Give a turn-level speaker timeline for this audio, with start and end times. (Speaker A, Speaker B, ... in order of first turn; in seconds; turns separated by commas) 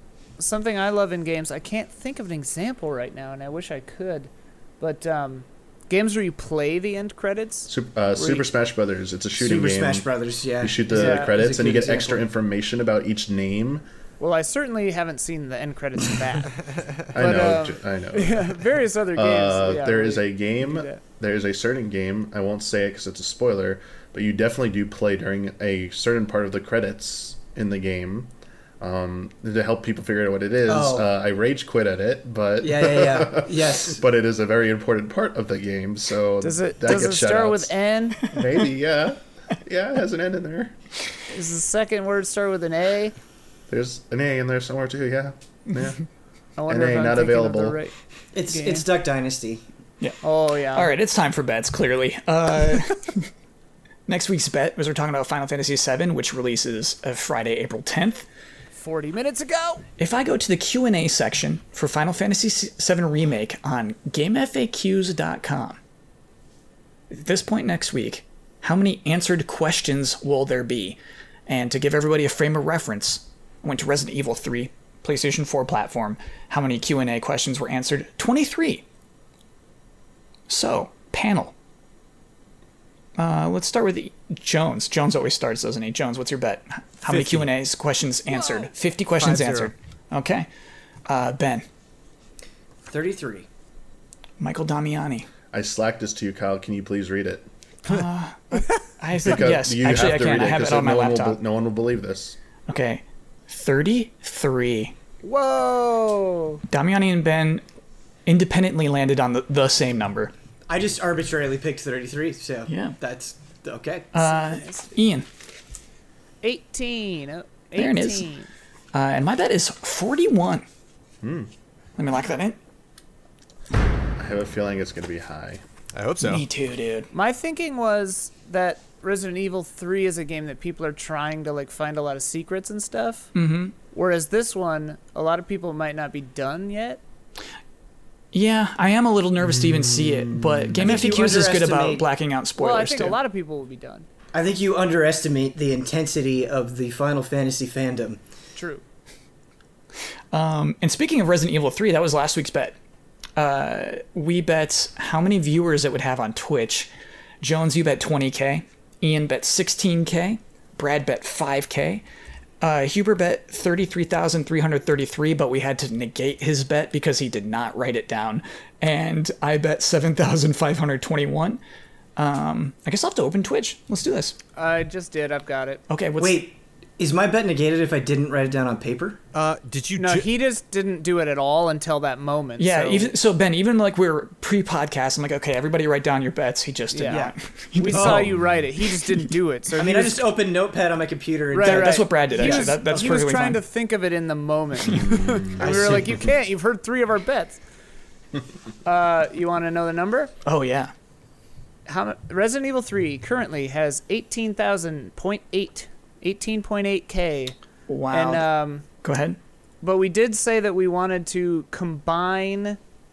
Speaker A: 0.4-8.4, Speaker B: 7.7-10.1, Speaker C: 9.4-12.2, Speaker B: 10.6-13.8, Speaker A: 10.9-11.4, Speaker A: 14.2-16.6, Speaker B: 17.1-37.7, Speaker A: 17.1-21.0, Speaker C: 30.7-31.1, Speaker C: 32.6-34.0, Speaker A: 36.4-38.3, Speaker B: 38.2-40.7, Speaker A: 41.3-43.1, Speaker B: 43.7-46.0, Speaker A: 46.6-48.0, Speaker B: 46.7-47.8, Speaker C: 48.3-49.6, Speaker A: 48.5-48.9, Speaker A: 50.2-50.9, Speaker D: 50.7-53.3, Speaker D: 54.1-58.3, Speaker A: 58.7-59.9, Speaker D: 60.0-65.8, Speaker D: 67.1-78.8, Speaker D: 80.5-81.5, Speaker D: 83.2-90.5, Speaker E: 87.0-87.5, Speaker A: 88.3-88.7, Speaker E: 89.2-89.7, Speaker D: 91.1-91.7, Speaker C: 92.9-93.5, Speaker D: 94.4-95.3, Speaker B: 95.5-97.5, Speaker D: 97.8-101.4, Speaker B: 99.2-102.4, Speaker D: 102.7-105.0, Speaker A: 105.2-106.6, Speaker D: 106.7-107.6, Speaker D: 108.3-110.3, Speaker C: 110.7-114.2, Speaker D: 112.7-113.0, Speaker D: 114.1-115.3, Speaker A: 114.2-115.0, Speaker A: 116.4-118.5, Speaker D: 117.8-118.3, Speaker D: 118.9-120.7, Speaker B: 121.2-121.5, Speaker D: 122.0-122.6, Speaker B: 124.2-125.6, Speaker E: 125.9-126.5, Speaker D: 126.2-127.1, Speaker A: 127.1-133.3, Speaker D: 133.3-133.8, Speaker A: 133.8-137.0, Speaker D: 138.3-143.2, Speaker B: 139.5-140.9, Speaker C: 140.8-142.1, Speaker A: 142.6-144.1, Speaker C: 144.3-148.2, Speaker A: 148.6-148.8, Speaker D: 150.3-152.8, Speaker D: 153.4-156.9, Speaker D: 157.4-162.0, Speaker D: 162.6-171.6, Speaker D: 172.2-174.4, Speaker A: 174.6-175.8, Speaker D: 175.9-176.4, Speaker C: 176.2-179.2, Speaker E: 179.3-180.3, Speaker A: 180.0-183.1, Speaker D: 182.6-189.3, Speaker A: 186.9-190.3, Speaker C: 187.1-187.3, Speaker C: 187.9-188.3, Speaker C: 189.8-193.1, Speaker A: 191.5-197.6, Speaker D: 191.6-193.6, Speaker B: 195.0-195.6, Speaker C: 195.6-196.3, Speaker A: 198.8-200.3, Speaker D: 200.4-200.9, Speaker A: 201.9-207.6, Speaker D: 207.9-208.5, Speaker A: 208.1-208.9, Speaker D: 209.0-209.4, Speaker A: 209.8-212.8